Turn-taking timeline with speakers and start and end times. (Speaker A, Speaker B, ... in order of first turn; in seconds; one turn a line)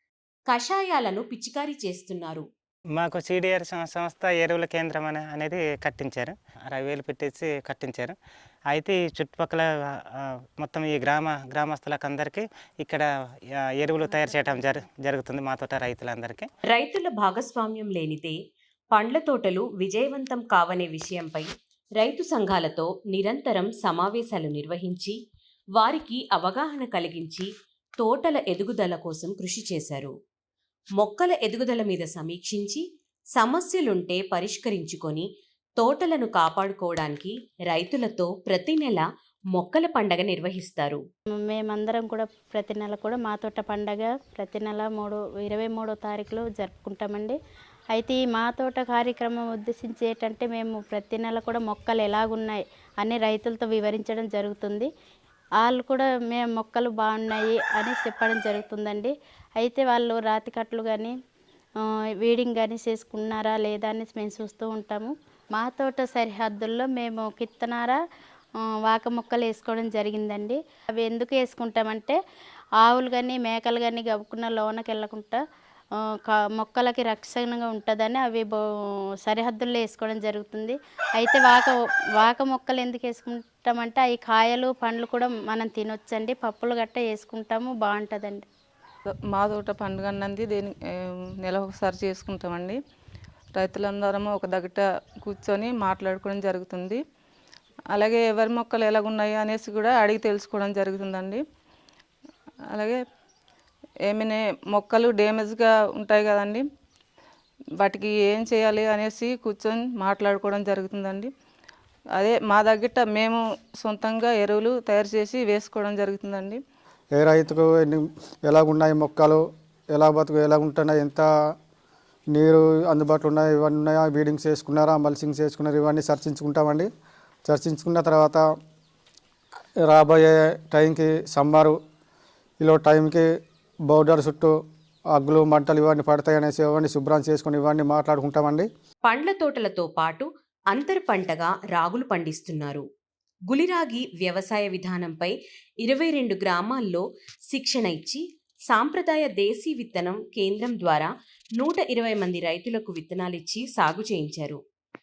Speaker A: 0.5-2.5
Speaker B: 2.9-8.2
Speaker B: 8.7-16.5
Speaker A: 16.7-18.4
Speaker A: 18.9-25.2
Speaker A: 25.8-27.5
Speaker A: 28.0-30.1
Speaker A: 31.0-32.8
Speaker A: 33.4-35.3
Speaker A: 35.8-41.0
Speaker C: 41.3-47.4
Speaker C: 47.9-54.9
Speaker C: 55.6-61.1
Speaker C: 62.2-68.0
Speaker C: 68.8-72.2
Speaker C: 72.8-75.4
Speaker C: 76.2-78.6
Speaker C: 79.2-88.5
Speaker D: 89.1-92.8
Speaker D: 93.5-97.0
Speaker D: 97.9-101.5
Speaker D: 102.7-103.1
Speaker D: 104.0-106.7
Speaker D: 107.8-111.3
Speaker D: 112.1-116.6
Speaker E: 117.1-121.3
Speaker E: 122.3-126.9
Speaker E: 127.5-128.4
Speaker E: 129.9-131.8
Speaker E: 132.6-133.3
Speaker E: 133.9-134.6
Speaker E: 135.1-138.7
Speaker A: 139.1-142.8
Speaker A: 143.5-154.6